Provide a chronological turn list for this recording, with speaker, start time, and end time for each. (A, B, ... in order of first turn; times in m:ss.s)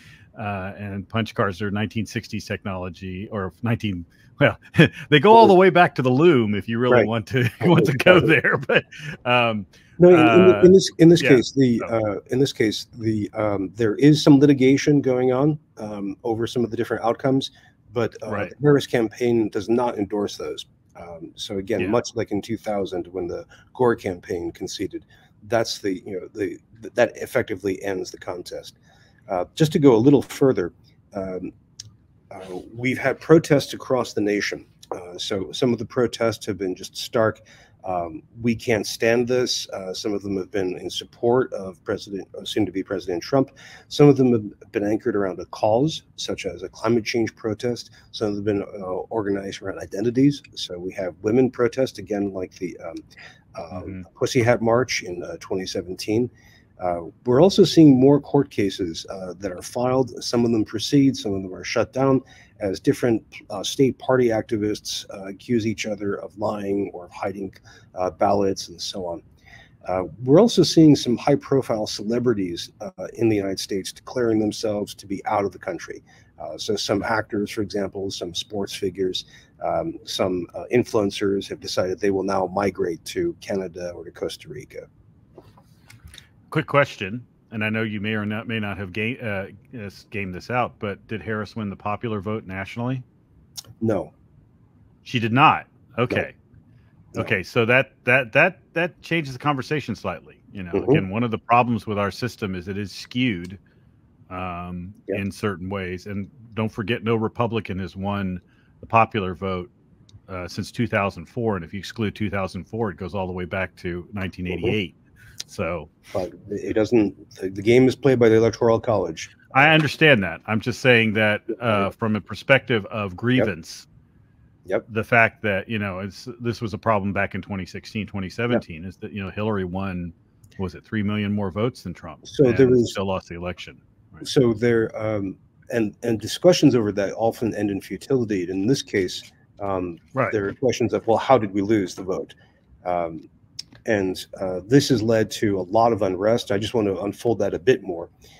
0:00.3-0:11.9 A
0:07.6-0:08.3 B
0:10.0-0:28.7 B
0:18.3-0:18.5 A
0:29.3-0:31.5 B
0:32.3-0:53.0 B
0:53.5-1:09.2 B
1:09.8-1:24.9 B
1:26.5-1:33.0 A
1:33.8-1:34.1 B
1:35.0-1:36.3 A
1:37.1-1:43.6 A
1:40.7-1:41.0 B
1:44.3-1:49.7 A
1:50.3-1:55.9 A
1:56.1-1:59.5 B
1:59.5-2:03.9 A
2:04.9-2:14.2 A
2:12.2-2:13.0 B
2:14.2-2:22.3 B
2:22.8-2:23.2 B
2:23.8-2:28.1 B